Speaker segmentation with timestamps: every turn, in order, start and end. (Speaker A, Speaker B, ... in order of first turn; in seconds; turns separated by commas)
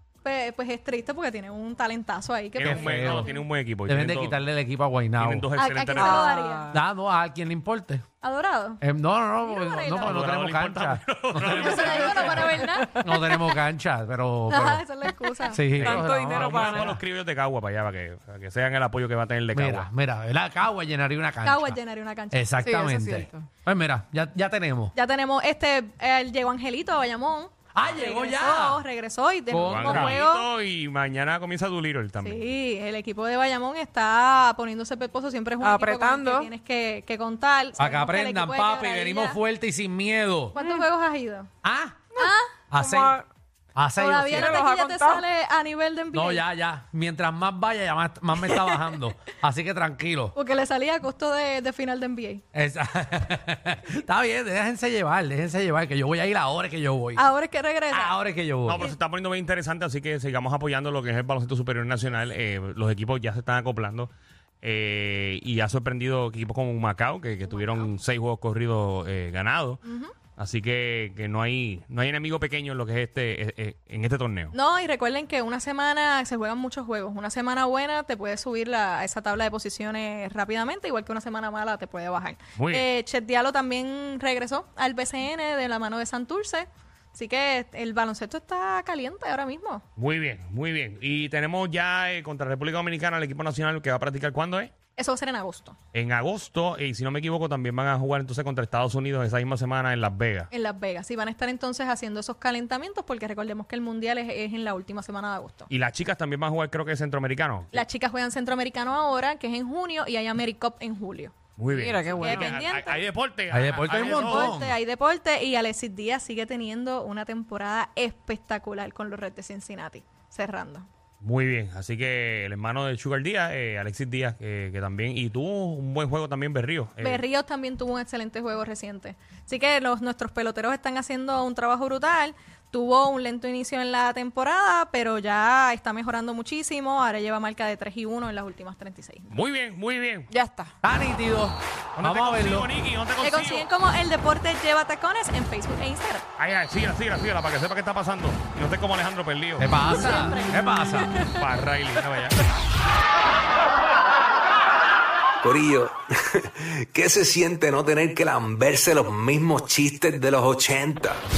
Speaker A: 0.2-3.4, Speaker B: 2.6-4.4, Speaker C: 2.6-3.3, Speaker C: 3.9-5.5, Speaker B: 5.2-6.4, Speaker A: 5.5-6.7, Speaker D: 6.0-6.8, Speaker C: 6.7-8.0, Speaker A: 8.2-8.8, Speaker C: 8.8-14.8, Speaker A: 9.4-10.2, Speaker B: 10.0-12.7, Speaker A: 11.5-13.0, Speaker D: 11.7-13.5, Speaker A: 14.5-15.6, Speaker C: 15.5-16.9, Speaker B: 15.8-19.9, Speaker D: 15.8-17.0, Speaker C: 19.5-21.8, Speaker A: 21.4-22.6, Speaker C: 22.3-24.9, Speaker D: 22.6-23.5, Speaker A: 24.9-30.5, Speaker C: 27.8-28.8, Speaker C: 29.5-30.2, Speaker B: 29.5-32.5, Speaker A: 32.2-39.4, Speaker D: 35.6-36.5, Speaker C: 37.8-40.6, Speaker A: 40.5-41.5, Speaker C: 41.6-42.0, Speaker A: 42.2-42.5, Speaker D: 42.2-43.2, Speaker C: 42.7-43.2, Speaker C: 43.8-44.6, Speaker A: 44.0-46.4, Speaker D: 44.3-45.2, Speaker C: 46.1-50.3, Speaker A: 48.4-49.0, Speaker A: 50.3-52.4, Speaker C: 52.5-57.2, Speaker A: 57.1-58.1, Speaker C: 57.9-58.9, Speaker B: 58.6-64.1, Speaker B: 64.6-69.8, Speaker A: 69.8-70.1, Speaker B: 70.4-74.5, Speaker A: 74.5-89.8, Speaker B: 82.5-82.8, Speaker B: 90.0-94.7, Speaker A: 95.0-95.8, Speaker B: 95.9-100.5, Speaker A: 100.5-105.7, Speaker B: 105.7-107.8, Speaker A: 107.7-111.3, Speaker B: 111.6-114.6, Speaker D: 111.7-112.6, Speaker A: 112.2-113.0, Speaker C: 113.5-114.8, Speaker A: 113.9-120.8, Speaker B: 121.2-127.2, Speaker A: 127.0-139.3, Speaker B: 139.3-140.3, Speaker D: 140.3-140.7, Speaker C: 140.8-142.7, Speaker B: 141.9-143.7, Speaker A: 143.2-146.2, Speaker B: 146.4-149.7, Speaker C: 149.6-151.2, Speaker A: 149.8-151.3, Speaker B: 151.3-152.4, Speaker E: 155.4-161.2